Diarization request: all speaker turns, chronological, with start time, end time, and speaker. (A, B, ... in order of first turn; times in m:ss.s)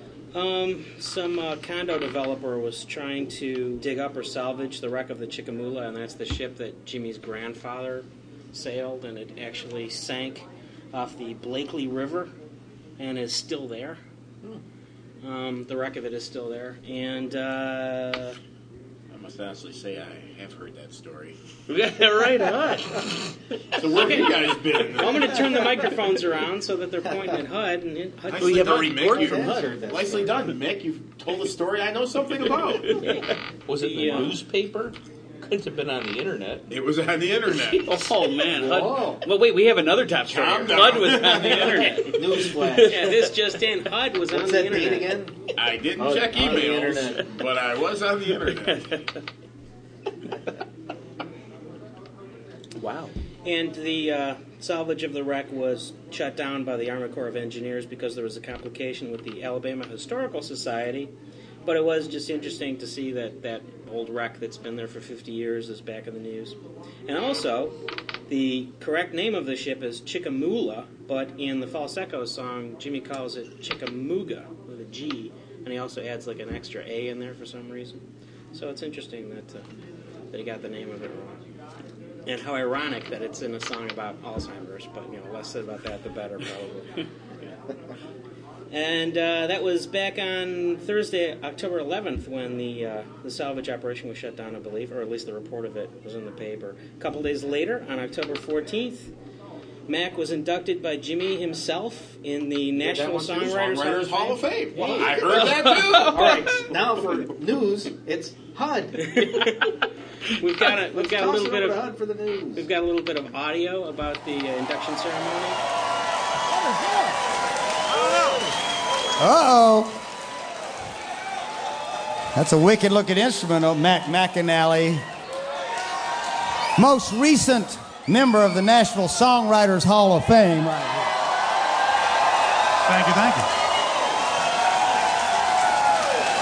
0:00.3-0:12.3 A
0:13.0-0:14.0 A
0:15.2-0:18.4 A
0:19.1-0:21.4 B
0:21.7-0:24.3 C
0:23.8-0:25.6 B
0:23.9-0:24.3 A
0:24.9-0:29.6 A
0:28.3-0:33.0 B
0:28.4-0:29.4 C
0:29.0-0:30.5 D
0:33.0-0:34.4 A
0:33.7-0:36.7 E
0:36.7-0:38.0 B
0:37.8-0:42.8 C
0:38.4-0:39.2 D
0:40.3-0:42.0 B
0:42.1-0:43.1 D
0:42.8-0:45.2 A
0:44.3-0:45.4 D
0:45.6-0:48.8 B
0:46.0-0:47.3 D
0:52.8-0:53.1 C
0:53.4-1:01.1 A
1:01.6-1:07.7 A
1:08.3-1:18.0 A
1:18.5-1:19.6 A
1:20.3-1:21.3 A
1:22.2-1:27.0 A
1:28.7-1:39.1 A
1:39.9-1:45.7 A
1:42.8-1:46.4 B
1:44.7-1:49.4 D
1:49.0-1:49.7 A
1:50.4-1:52.0 A
1:50.9-1:52.6 D
1:52.5-1:55.6 A
1:56.5-1:57.1 F
1:59.2-2:00.0 F
2:02.3-2:05.0 F
2:06.8-2:11.1 F
2:12.9-2:13.5 F